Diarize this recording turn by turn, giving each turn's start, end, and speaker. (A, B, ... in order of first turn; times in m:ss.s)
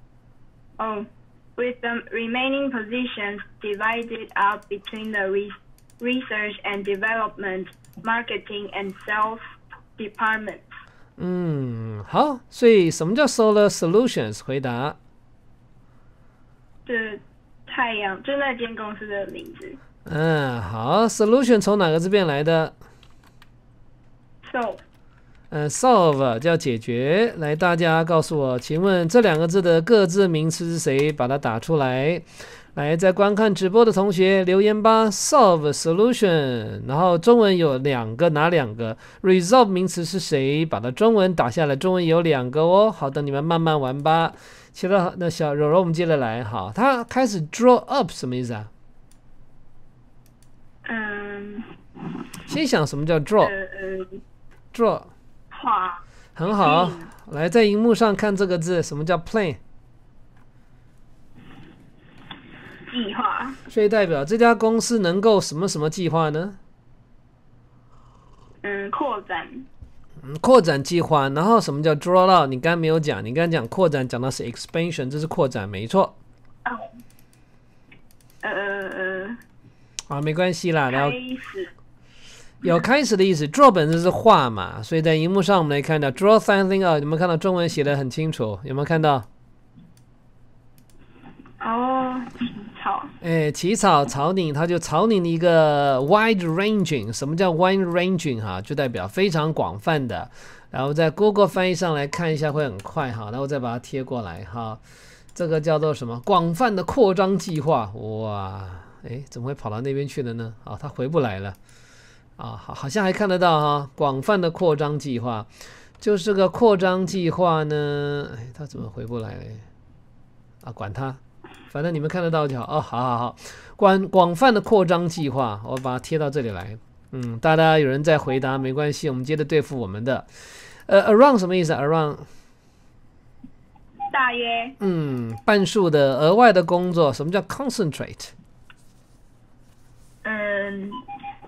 0:00.8-0:09.4 A
0:10.0-0:10.6 A
0:11.2-0:15.0 B
0:16.8-0:19.8 A
0:20.1-0:22.7 B
0:24.4-0:24.8 A
0:25.5-0:48.7 B
0:50.8-0:51.7 A
0:52.5-0:53.5 B
0:53.4-0:54.2 A
0:54.7-0:55.1 B
0:55.5-0:56.0 A
0:56.4-0:59.6 B
0:56.6-0:57.1 A
1:02.9-1:03.6 A
1:03.7-1:06.6 B
1:08.6-1:09.7 A
1:10.2-1:16.1 B
1:18.4-1:19.4 A
1:20.1-1:21.2 B
1:20.9-1:21.7 A
1:22.6-1:29.2 B
1:31.6-1:33.1 A
1:33.2-1:44.8 B
1:45.3-1:51.6 B
1:52.4-1:55.5 B
1:56.0-1:59.6 B
2:00.6-2:01.2 B
2:01.7-2:12.3 B
2:14.1-2:14.8 A
2:14.8-2:18.3 B
2:20.2-2:21.0 A